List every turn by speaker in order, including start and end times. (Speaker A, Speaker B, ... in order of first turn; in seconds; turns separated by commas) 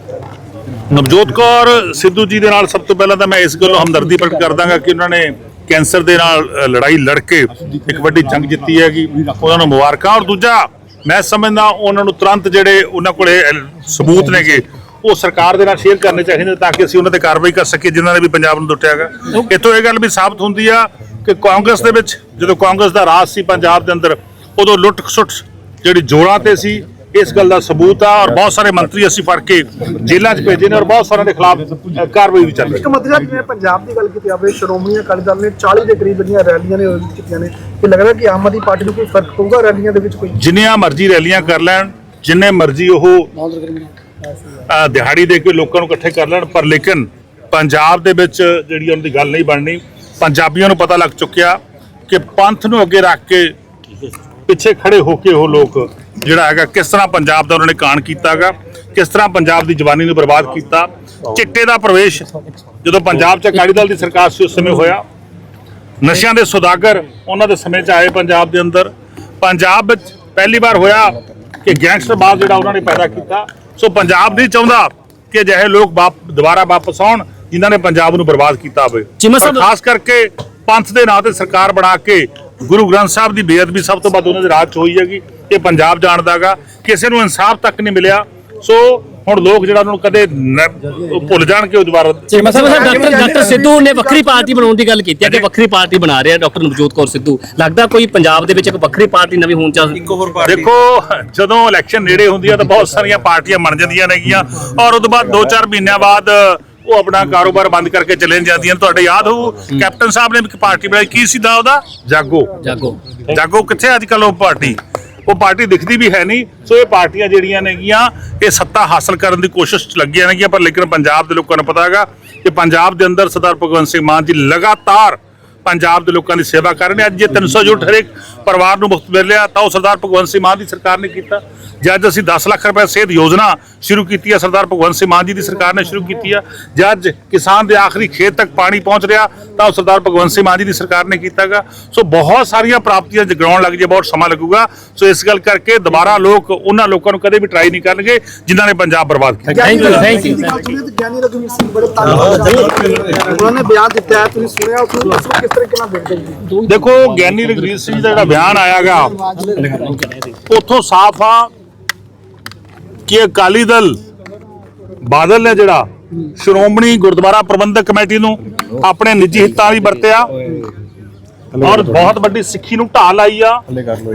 Speaker A: 0.9-32.8, Speaker B: 32.7-40.3, Speaker A: 40.4-43.3, Speaker A: 44.6-53.5, Speaker A: 54.5-62.3, Speaker A: 62.8-65.0, Speaker A: 66.0-68.9, Speaker A: 69.4-93.2, Speaker C: 79.2-79.7, Speaker C: 92.3-100.3, Speaker B: 92.4-94.7, Speaker A: 95.2-95.5, Speaker A: 100.4-112.6, Speaker C: 112.6-113.0, Speaker A: 113.2-150.1, Speaker B: 149.5-156.6, Speaker C: 149.6-150.5, Speaker A: 156.7-159.1, Speaker B: 159.2-159.8, Speaker A: 160.5-161.5, Speaker A: 163.1-164.0, Speaker A: 165.0-170.3, Speaker A: 171.5-173.6